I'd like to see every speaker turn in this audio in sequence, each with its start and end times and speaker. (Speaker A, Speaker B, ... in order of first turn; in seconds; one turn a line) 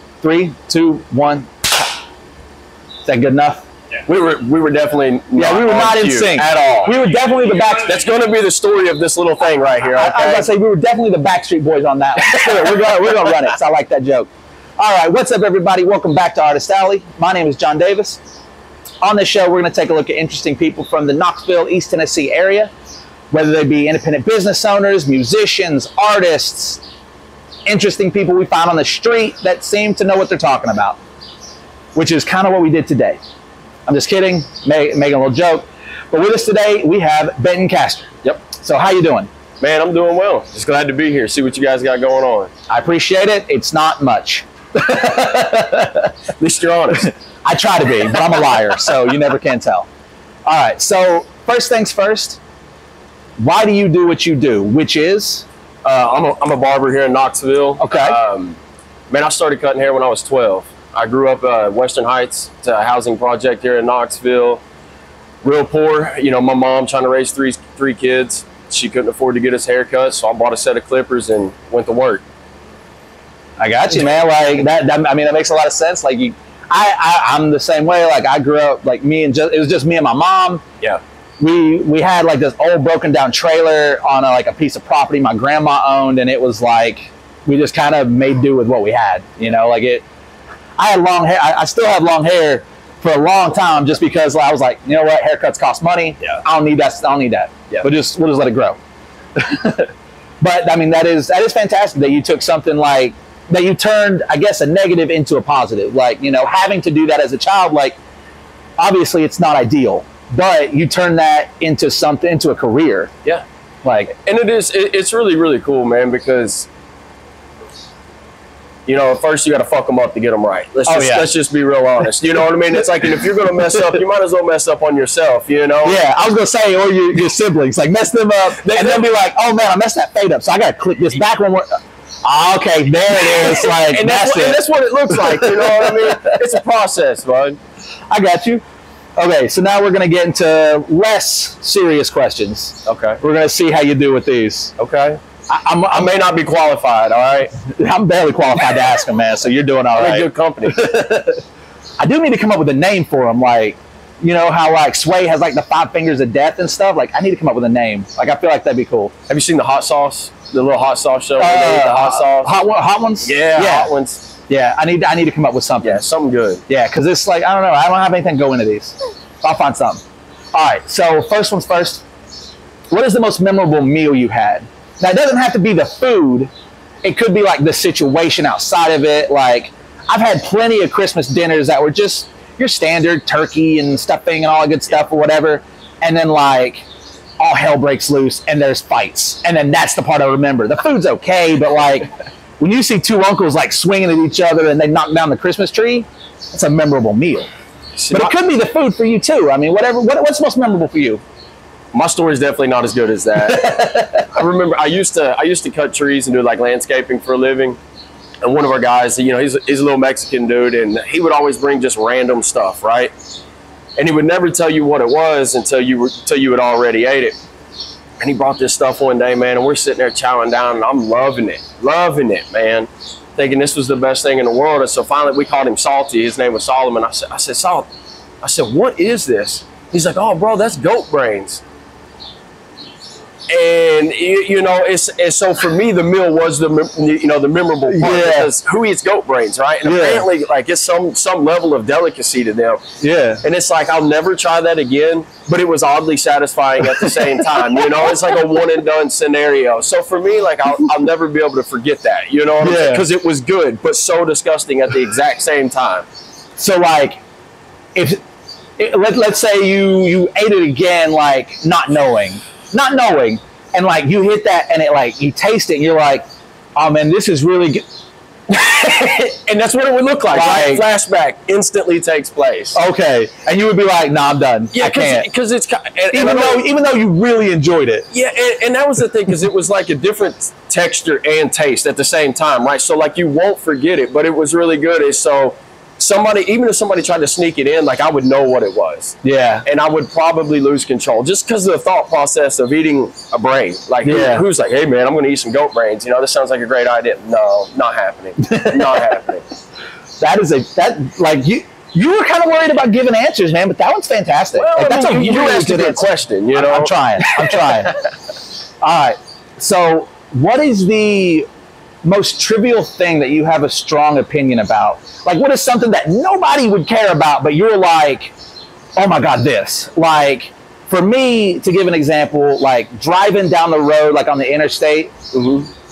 Speaker A: 0.2-1.7
Speaker A: 3.0-3.6
Speaker B: 4.0-7.0
Speaker A: 5.3-7.9
Speaker B: 7.6-10.5
Speaker A: 9.8-18.2
Speaker B: 12.2-13.5
Speaker A: 19.0-22.7
Speaker A: 23.3-26.8
Speaker A: 27.6-31.0
Speaker A: 31.9-33.2
Speaker A: 33.9-39.3
Speaker B: 39.6-42.5
Speaker A: 42.7-46.1
Speaker B: 46.4-47.1
Speaker A: 47.4-49.9
Speaker A: 50.5-52.4
Speaker A: 53.4-55.4
Speaker B: 55.8-58.6
Speaker A: 57.8-58.2
Speaker B: 59.1-64.6
Speaker B: 65.4-72.2
Speaker A: 73.6-80.6
Speaker A: 81.4-90.0
Speaker A: 90.8-98.8
Speaker A: 99.3-108.0
Speaker A: 108.8-113.1
Speaker A: 113.8-114.1
Speaker B: 114.1-116.7
Speaker B: 118.8-126.0
Speaker A: 120.8-121.3
Speaker A: 125.8-131.7
Speaker B: 128.6-129.0
Speaker A: 132.2-136.4
Speaker B: 133.2-137.6
Speaker A: 138.1-138.6
Speaker A: 139.2-144.7
Speaker B: 142.8-143.2
Speaker B: 144.8-145.2
Speaker A: 145.5-146.1
Speaker B: 145.9-147.5
Speaker A: 147.6-151.4
Speaker B: 149.9-150.9
Speaker A: 152.0-159.1
Speaker B: 159.3-162.6
Speaker A: 161.4-163.9
Speaker B: 163.2-164.2
Speaker A: 164.5-166.1
Speaker B: 165.8-166.6
Speaker A: 166.7-170.0
Speaker A: 170.5-172.0
Speaker A: 172.9-176.5
Speaker A: 177.0-186.8
Speaker A: 187.4-197.5
Speaker B: 197.9-198.3
Speaker A: 198.1-201.2
Speaker B: 201.9-207.8
Speaker A: 203.4-204.2
Speaker B: 208.4-213.1
Speaker B: 214.0-217.4
Speaker B: 218.2-227.9
Speaker B: 228.4-231.6
Speaker B: 233.5-242.9
Speaker A: 237.9-238.5
Speaker A: 239.8-240.3
Speaker A: 243.0-243.4
Speaker B: 243.4-256.1
Speaker A: 246.8-248.4
Speaker A: 252.6-253.0
Speaker A: 256.6-257.2
Speaker A: 257.9-258.2
Speaker A: 258.8-267.8
Speaker B: 268.5-272.8
Speaker A: 270.3-270.8
Speaker A: 272.7-275.3
Speaker B: 274.7-276.7
Speaker A: 276.1-278.1
Speaker B: 278.1-299.4
Speaker A: 289.2-289.6
Speaker A: 294.0-294.4
Speaker A: 298.4-299.0
Speaker A: 300.2-307.9
Speaker B: 304.5-307.6
Speaker A: 308.8-311.5
Speaker A: 312.0-318.3
Speaker A: 318.9-325.1
Speaker B: 325.3-325.7